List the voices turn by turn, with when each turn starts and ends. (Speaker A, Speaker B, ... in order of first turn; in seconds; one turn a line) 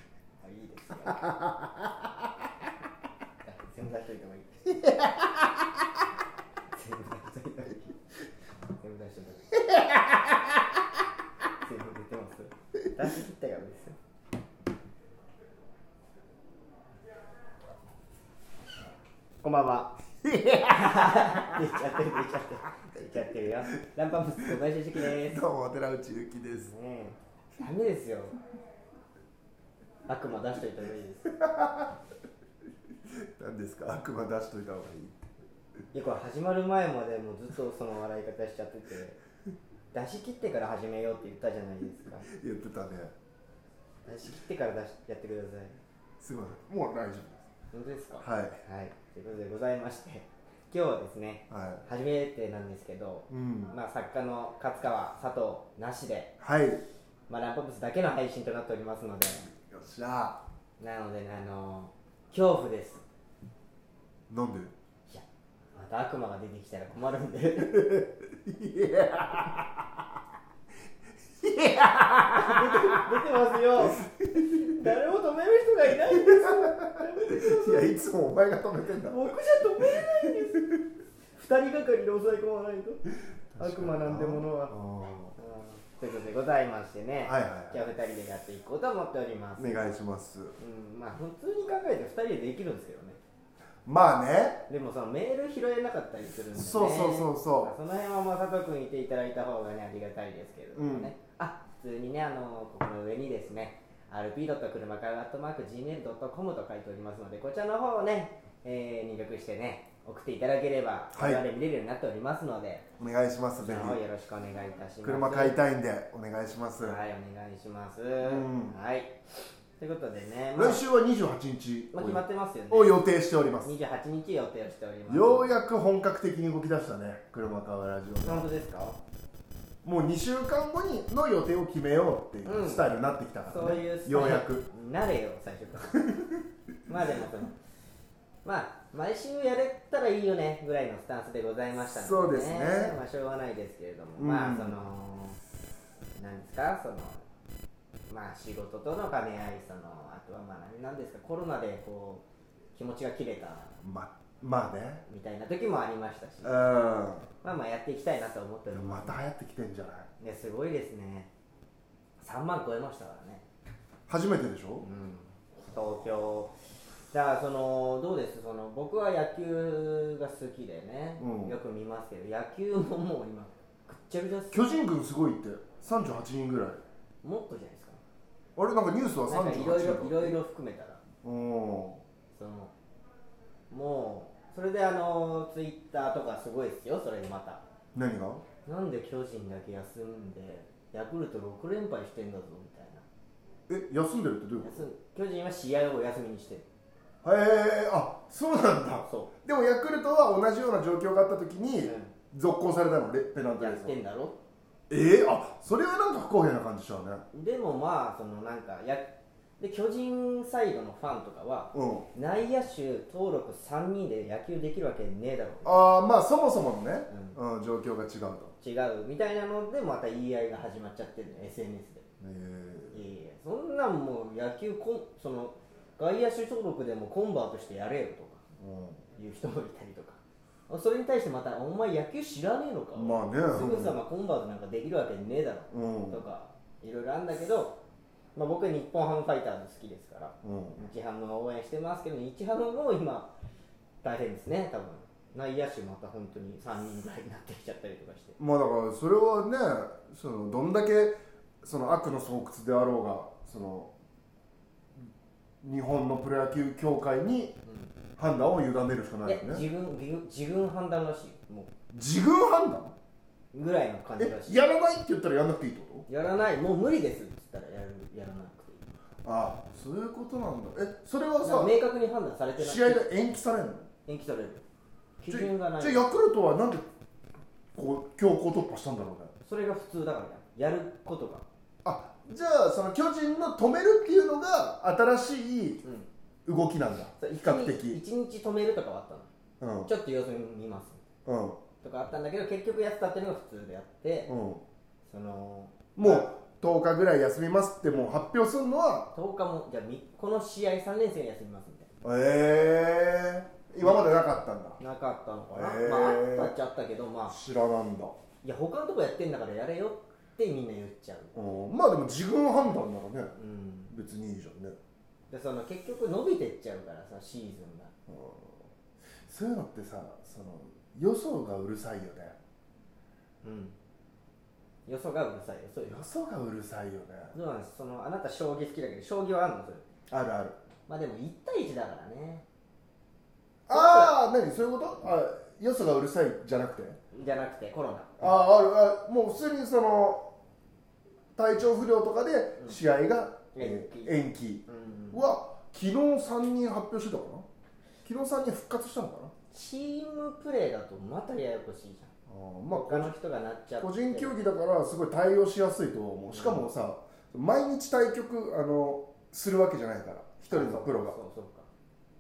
Speaker A: 0.4-1.3
Speaker B: 1.2-1.5
Speaker A: 3.5-4.8
Speaker A: 6.7-8.0
Speaker A: 8.8-9.7
Speaker A: 11.6-14.0
Speaker A: 19.4-19.9
Speaker B: 20.2-22.2
Speaker A: 20.7-25.4
Speaker B: 24.4-26.7
Speaker A: 26.6-28.4
Speaker A: 30.1-31.3
Speaker B: 31.3-32.0
Speaker B: 33.2-35.2
Speaker A: 35.9-39.2
Speaker A: 39.9-42.3
Speaker B: 42.2-43.1
Speaker A: 44.1-45.8
Speaker B: 46.2-47.5
Speaker A: 47.7-56.3
Speaker B: 48.2-48.6
Speaker B: 51.5-51.8
Speaker B: 53.3-53.7
Speaker B: 56.4-56.8
Speaker A: 57.3-59.5
Speaker B: 59.7-60.4
Speaker A: 60.8-63.0
Speaker B: 64.3-64.7
Speaker A: 65.1-67.8
Speaker B: 67.6-70.0
Speaker B: 71.4-73.2
Speaker A: 72.3-78.0
Speaker B: 73.8-74.9
Speaker B: 75.9-79.4
Speaker A: 79.0-80.6
Speaker B: 79.9-80.8
Speaker A: 81.4-83.0
Speaker B: 83.5-85.4
Speaker A: 83.6-84.8
Speaker A: 85.4-89.9
Speaker B: 87.2-87.8
Speaker B: 89.6-90.6
Speaker A: 90.6-93.2
Speaker B: 93.9-94.6
Speaker A: 94.7-112.9
Speaker B: 96.5-97.8
Speaker B: 100.8-101.1
Speaker B: 111.1-111.4
Speaker B: 113.0-114.0
Speaker A: 113.6-115.6
Speaker B: 115.0-117.0
Speaker A: 116.8-119.1
Speaker B: 118.2-118.8
Speaker A: 119.8-120.8
Speaker B: 120.5-123.7
Speaker A: 121.9-123.0
Speaker A: 123.6-125.5
Speaker B: 125.1-128.5
Speaker A: 128.2-129.0
Speaker B: 129.8-134.7
Speaker A: 132.4-132.9
Speaker A: 133.5-136.1
Speaker B: 136.0-136.4
Speaker A: 136.9-137.6
Speaker A: 138.4-145.4
Speaker B: 141.8-143.0
Speaker B: 144.2-144.8
Speaker A: 146.2-147.2
Speaker A: 148.1-153.8
Speaker B: 153.8-155.1
Speaker A: 155.1-156.8
Speaker B: 156.4-157.3
Speaker A: 157.4-159.2
Speaker B: 158.7-160.1
Speaker A: 160.2-161.3
Speaker A: 162.2-163.4
Speaker B: 164.1-164.9
Speaker A: 164.8-166.5
Speaker A: 167.1-174.8
Speaker B: 171.2-171.6
Speaker B: 174.5-176.8
Speaker A: 177.2-178.0
Speaker B: 178.6-180.4
Speaker A: 179.3-181.0
Speaker B: 181.2-182.0
Speaker A: 182.3-182.7
Speaker A: 183.7-187.6
Speaker B: 187.9-188.4
Speaker A: 188.7-193.1
Speaker B: 193.7-194.9
Speaker A: 194.6-196.7
Speaker B: 197.2-204.0
Speaker A: 199.1-199.3
Speaker A: 201.8-202.1
Speaker A: 203.6-204.4
Speaker B: 204.9-207.2
Speaker A: 207.3-215.8
Speaker B: 211.7-212.1
Speaker B: 215.6-218.5
Speaker A: 217.1-217.4
Speaker A: 218.6-222.1
Speaker B: 222.2-223.0
Speaker A: 222.9-228.4
Speaker B: 228.6-229.0
Speaker A: 229.2-237.8
Speaker B: 232.9-234.0
Speaker B: 235.7-236.2
Speaker A: 238.4-243.3
Speaker B: 240.4-240.9
Speaker A: 244.0-248.4
Speaker B: 248.4-253.9
Speaker B: 255.6-257.6
Speaker A: 257.7-257.9
Speaker B: 258.2-259.6
Speaker A: 259.2-261.7
Speaker B: 261.9-262.9
Speaker A: 263.5-264.6
Speaker B: 264.2-266.1
Speaker A: 266.1-268.9
Speaker B: 269.2-271.8
Speaker A: 271.4-273.2
Speaker B: 272.6-273.9
Speaker A: 274.1-274.6
Speaker A: 275.2-276.1
Speaker B: 275.3-276.9
Speaker B: 277.8-279.3
Speaker A: 279.4-281.4
Speaker B: 281.8-285.8
Speaker B: 286.5-288.0
Speaker A: 287.2-289.3
Speaker B: 289.6-289.9
Speaker A: 289.9-291.0
Speaker B: 291.3-291.6
Speaker A: 291.8-294.3
Speaker B: 294.3-294.6
Speaker A: 295.1-296.3
Speaker B: 296.0-299.1
Speaker A: 299.1-301.9
Speaker B: 302.0-304.8
Speaker A: 303.8-304.1
Speaker A: 304.8-307.4
Speaker B: 305.5-306.5
Speaker B: 307.3-308.2
Speaker A: 308.4-311.4
Speaker B: 311.4-313.4
Speaker A: 313.4-313.9
Speaker B: 313.9-314.8
Speaker A: 315.3-317.9
Speaker B: 318.1-318.6
Speaker B: 319.3-322.4
Speaker A: 323.4-323.8
Speaker A: 324.9-326.0
Speaker B: 325.9-327.3
Speaker A: 327.3-329.9
Speaker B: 330.1-330.6
Speaker A: 330.9-332.4
Speaker B: 333.7-337.0
Speaker A: 333.7-334.2
Speaker A: 337.1-338.4
Speaker B: 338.2-340.3
Speaker B: 341.4-347.5
Speaker A: 343.5-345.2
Speaker B: 348.0-349.3
Speaker A: 349.5-352.1
Speaker B: 352.3-353.1
Speaker A: 352.7-354.4
Speaker B: 353.8-361.2
Speaker A: 356.3-356.7
Speaker A: 360.5-361.7